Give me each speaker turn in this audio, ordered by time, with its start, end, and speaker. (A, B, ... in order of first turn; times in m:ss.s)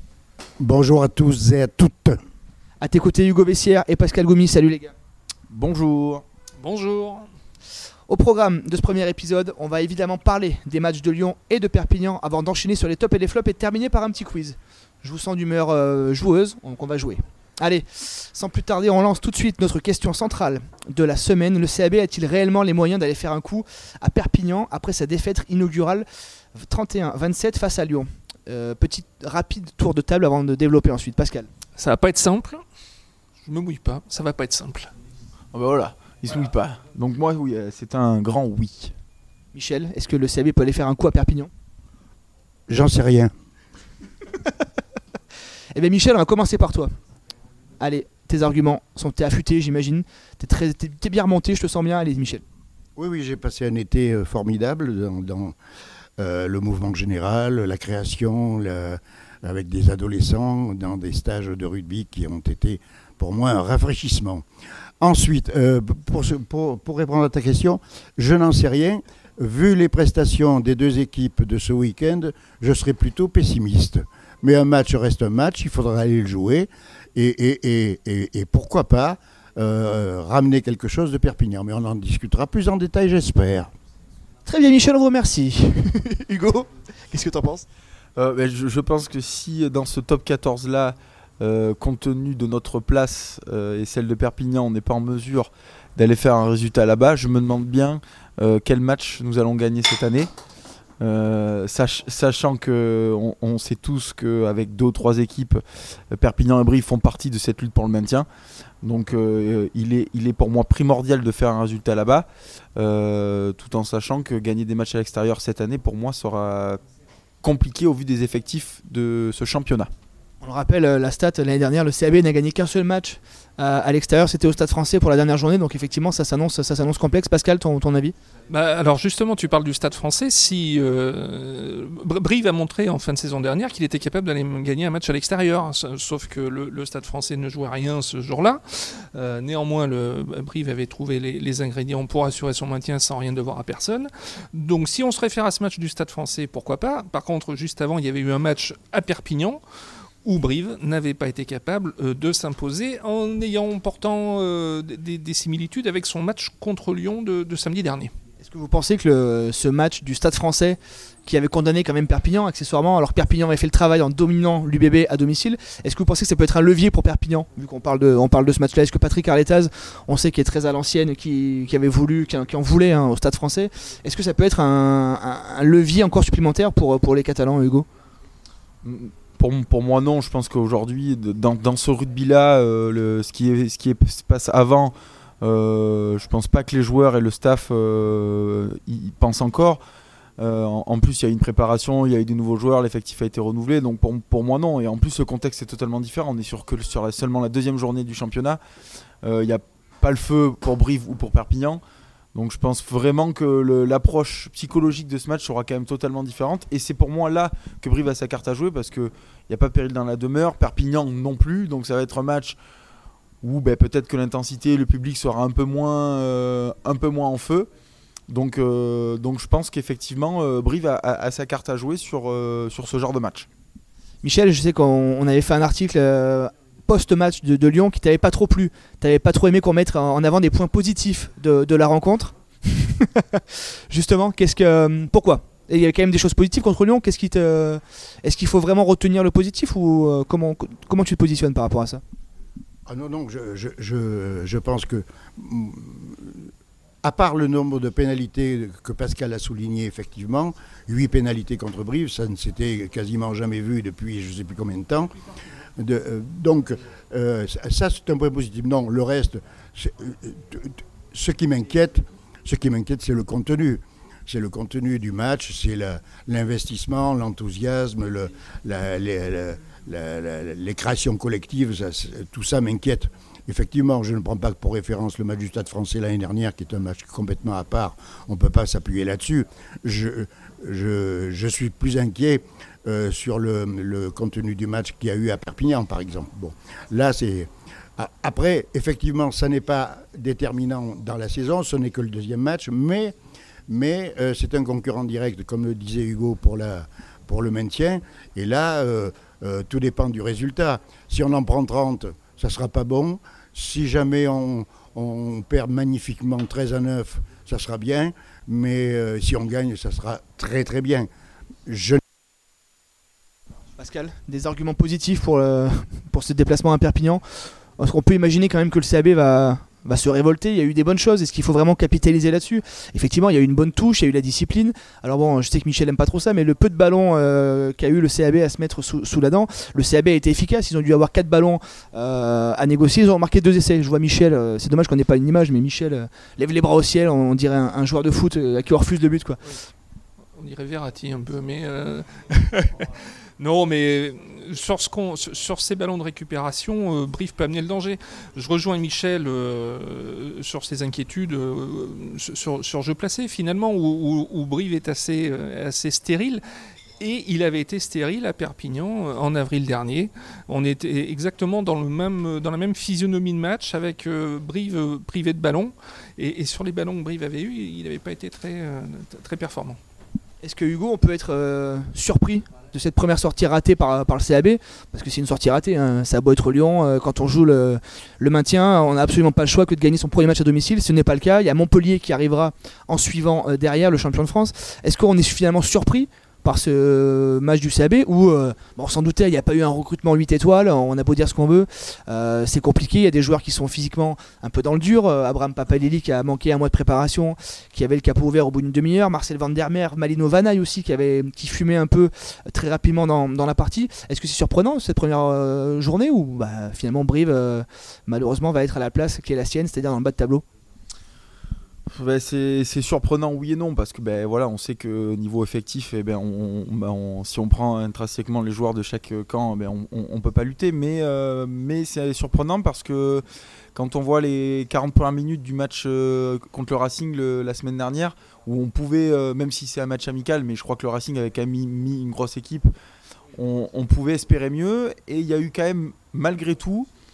0:00.6-0:02.2 A
0:02.8-0:04.9 B
0:05.5-0:06.2 C
0:06.6-0:07.3 D
0:08.1-0:31.5 B
0:31.8-0:32.6 D
0:33.4-0:34.9 D
0:35.5-0:38.9 C
0:39.5-0:41.5 B
0:42.7-0:43.3 A
0:45.7-0:46.9 B
0:47.8-0:52.4 B
0:53.0-0:55.6 A
0:56.2-1:04.4 A
1:05.0-1:23.7 A
1:24.5-1:27.7 B
1:28.2-1:40.3 C
1:41.0-1:48.3 C
1:48.8-1:56.8 C
1:57.4-1:59.9 C
2:00.4-2:08.2 B
2:08.5-2:29.6 D
2:30.2-2:38.1 D
2:38.4-2:57.9 B
2:58.8-3:09.8 C
3:10.4-3:18.6 C
3:19.2-3:21.8 C
3:22.4-3:32.6 C
3:33.4-3:37.7 C
3:38.3-3:43.5 C
3:44.2-4:02.0 B
4:02.9-4:06.5 A
4:07.0-4:15.1 A
4:15.8-4:53.2 A
4:53.7-5:11.1 A
5:11.7-5:12.0 A
5:13.8-5:39.4 B
5:40.4-5:56.4 D
5:57.0-6:09.8 D
6:10.4-6:50.4 B
6:51.9-7:03.2 C
7:03.8-7:12.7 C
7:13.4-7:16.9 C